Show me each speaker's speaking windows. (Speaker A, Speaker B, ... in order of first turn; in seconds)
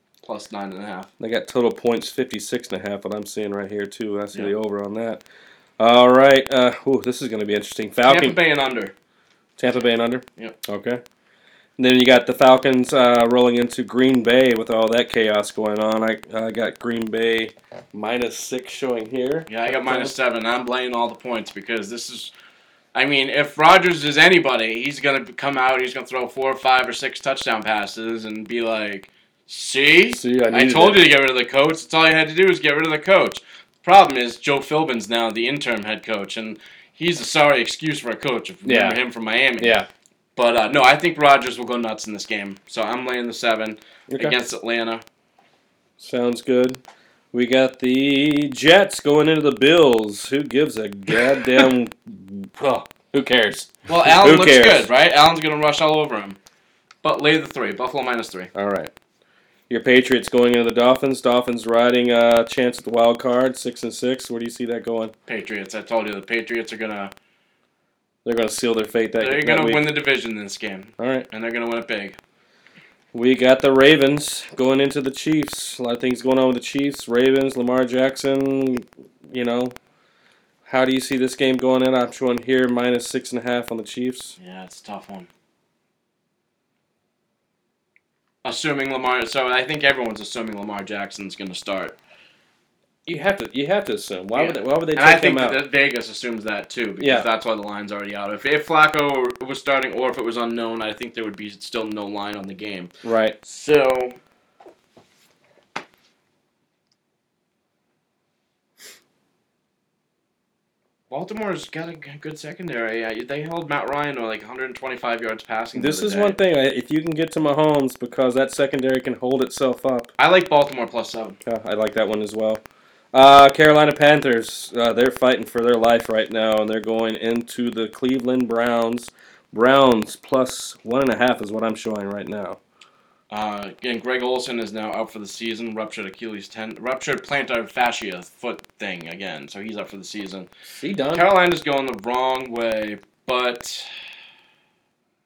Speaker A: 0.2-1.1, 8.1-8.9, 19.5-22.3, 22.9-39.7, 40.4-45.0, 53.9-56.4, 57.0-58.5, 65.3-67.1, 69.2-72.2, 84.4-85.3, 88.4-92.0, 94.4-102.9, 103.4-104.2, 111.1-116.4, 120.2-121.4, 133.3-140.5, 141.1-143.9
Speaker B: 1.2-5.2, 5.8-8.4, 9.6-11.0, 11.8-20.1, 30.1-31.0, 38.6-39.0, 39.6-39.9, 44.1-44.4, 46.0-46.8, 47.3-54.9, 58.5-58.9, 59.7-65.1, 68.2-69.9, 71.0-71.3, 73.1-79.8, 80.7-84.3, 93.0-95.6, 97.0-97.2, 103.0-103.3, 115.7-120.1, 121.4-122.6, 123.1-132.6, 140.7-141.2